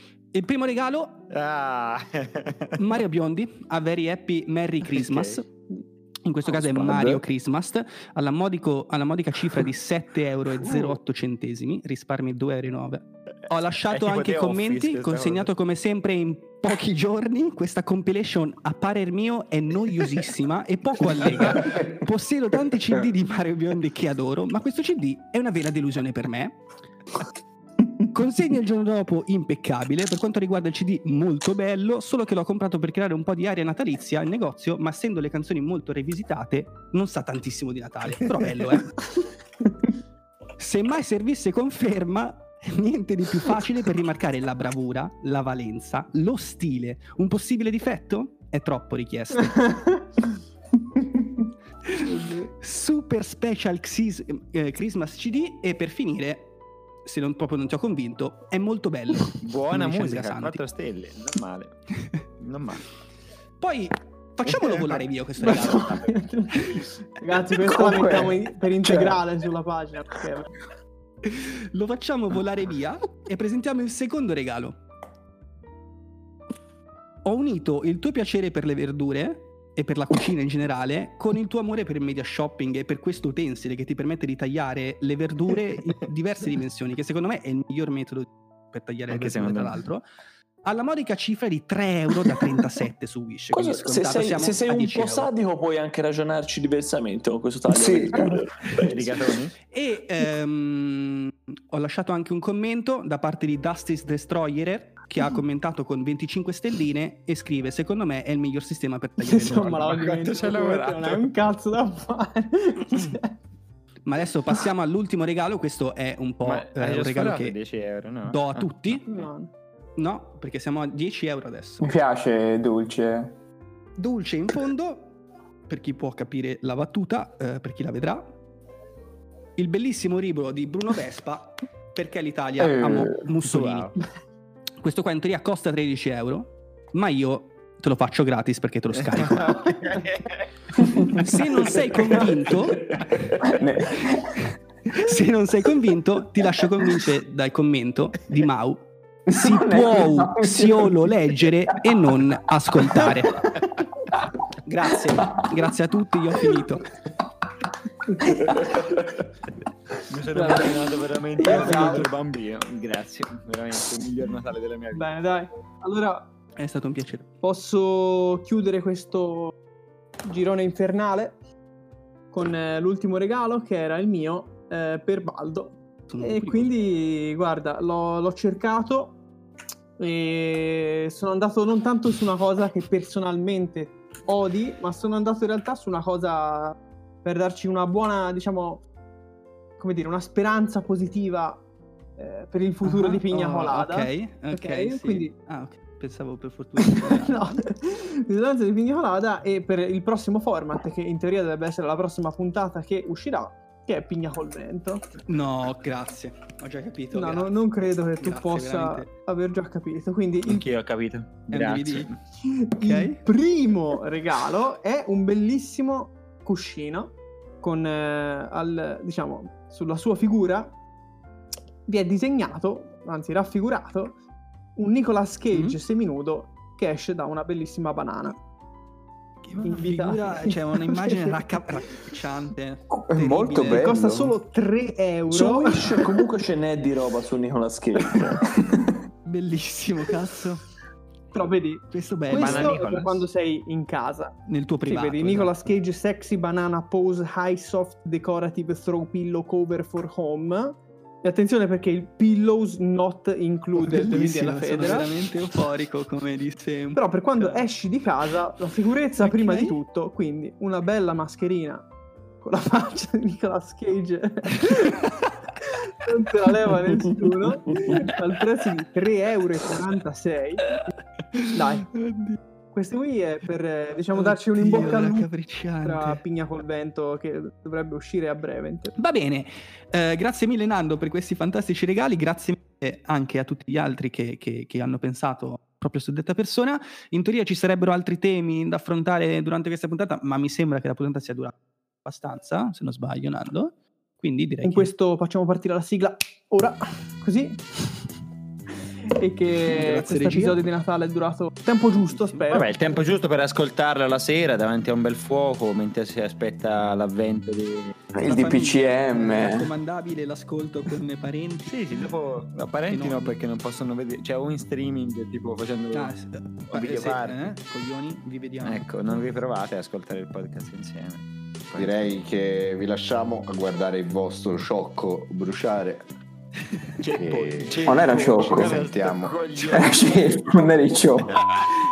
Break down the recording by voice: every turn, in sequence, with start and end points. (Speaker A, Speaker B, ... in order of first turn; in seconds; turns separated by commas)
Speaker A: 0.3-1.2, Speaker B: 1.3-2.8, Speaker A: 2.8-5.5, Speaker B: 4.9-5.4, Speaker A: 6.2-26.6, Speaker B: 6.5-7.2, Speaker B: 13.9-15.5, Speaker A: 28.1-38.9, Speaker A: 40.6-49.7, Speaker C: 52.0-52.5, Speaker A: 52.6-56.5, Speaker A: 57.0-60.6, Speaker B: 59.4-61.8, Speaker B: 62.4-62.9, Speaker A: 63.6-66.1, Speaker C: 65.4-70.5, Speaker B: 65.4-65.9, Speaker D: 67.6-69.2, Speaker A: 71.2-74.8, Speaker A: 77.2-90.0, Speaker B: 89.1-89.8, Speaker A: 90.6-95.3, Speaker E: 93.5-98.8, Speaker D: 97.7-98.4, Speaker B: 98.7-99.5, Speaker A: 99.7-109.9, Speaker C: 109.2-113.3, Speaker B: 109.7-111.3, Speaker A: 114.0-117.6, Speaker B: 116.4-119.0, Speaker A: 118.3-119.1, Speaker C: 119.1-119.5, Speaker A: 120.0-121.9, Speaker D: 121.8-123.3, Speaker A: 124.0-125.1, Speaker A: 125.7-128.3, Speaker A: 129.6-133.9, Speaker D: 132.6-133.2, Speaker B: 133.4-133.9, Speaker A: 134.8-140.0, Speaker B: 139.1-140.4, Speaker D: 140.8-144.3, Speaker A: 141.0-143.3, Speaker A: 144.9-153.4, Speaker D: 149.3-150.9, Speaker A: 154.6-156.9, Speaker B: 160.1-165.2, Speaker C: 161.4-162.1, Speaker E: 161.5-162.0, Speaker C: 164.9-166.3, Speaker A: 166.6-167.3, Speaker C: 167.4-169.6, Speaker C: 170.2-171.4, Speaker C: 172.3-179.2, Speaker A: 176.1-176.7, Speaker C: 180.0-188.8, Speaker C: 189.8-191.6, Speaker C: 192.2-195.3, Speaker A: 192.8-197.6, Speaker C: 196.8-205.1, Speaker A: 205.3-207.6, Speaker C: 207.1-210.6, Speaker A: 208.2-209.1, Speaker B: 210.4-212.2, Speaker A: 211.5-212.1, Speaker C: 212.4-220.7, Speaker A: 212.8-213.2, Speaker C: 221.8-224.2, Speaker C: 224.8-228.4, Speaker A: 225.5-225.8, Speaker A: 229.4-234.0, Speaker C: 229.6-231.4, Speaker D: 232.9-234.3, Speaker C: 233.7-235.9, Speaker E: 235.3-238.4, Speaker D: 238.1-238.6, Speaker A: 239.2-240.6, Speaker C: 241.3-255.1, Speaker A: 241.9-242.8, Speaker B: 242.3-243.2, Speaker A: 244.5-245.6, Speaker A: 253.8-257.6, Speaker C: 256.9-261.9, Speaker A: 259.2-259.8, Speaker C: 262.4-265.1, Speaker C: 265.9-270.8, Speaker A: 267.7-268.1, Speaker A: 271.3-272.4, Speaker C: 271.5-271.9, Speaker C: 272.7-275.3, Speaker A: 274.1-276.2, Speaker C: 275.8-278.9, Speaker A: 278.9-294.9, Speaker C: 294.6-297.6, Speaker C: 299.1-303.0, Speaker A: 299.7-300.6, Speaker A: 302.0-302.5, Speaker B: 302.5-308.0, Speaker D: 308.1-309.7, Speaker A: 308.2-311.8, Speaker B: 311.7-316.1, Speaker A: 312.9-313.3, Speaker A: 315.9-319.0, Speaker B: 316.7-317.5, Speaker B: 318.6-322.1, Speaker F: 321.7-326.0, Speaker E: 327.1-330.4, Speaker F: 327.1-329.4, Speaker B: 327.6-329.8, Speaker D: 327.8-328.8, Speaker D: 329.6-331.3